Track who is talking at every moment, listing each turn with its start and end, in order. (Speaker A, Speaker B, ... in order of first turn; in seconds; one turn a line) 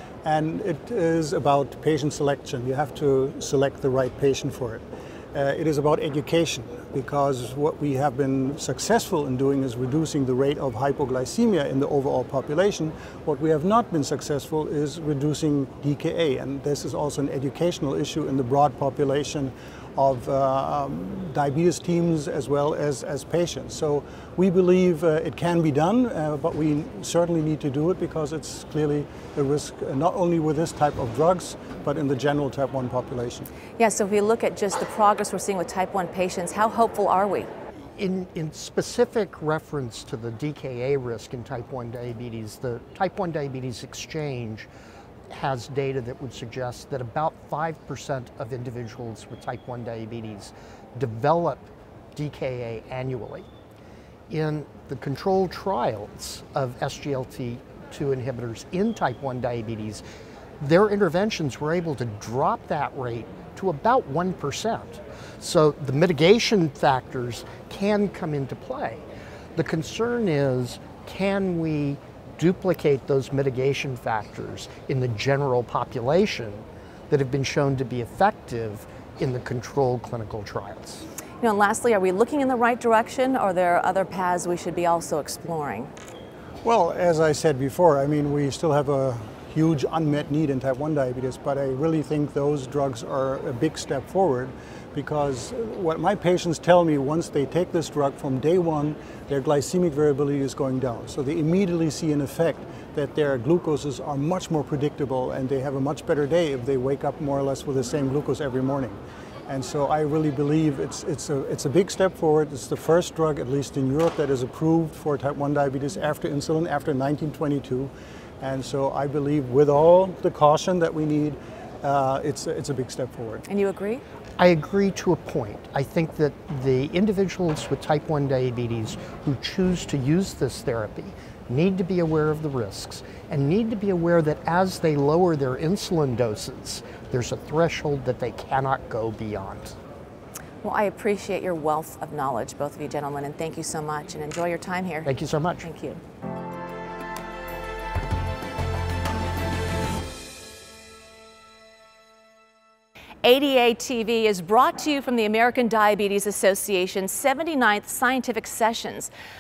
Speaker A: 0.2-33.5
Speaker B: 33.8-37.5
Speaker C: 38.0-44.7
Speaker C: 45.3-53.5
Speaker C: 54.3-60.0
Speaker C: 60.6-69.0
Speaker C: 69.6-81.0
Speaker B: 81.4-85.9
Speaker A: 86.6-123.4
Speaker B: 123.5-124.0
Speaker C: 124.4-139.8
Speaker B: 140.6-145.1
Speaker C: 145.1-145.7
Speaker B: 145.6-146.0
Speaker B: 153.2-159.1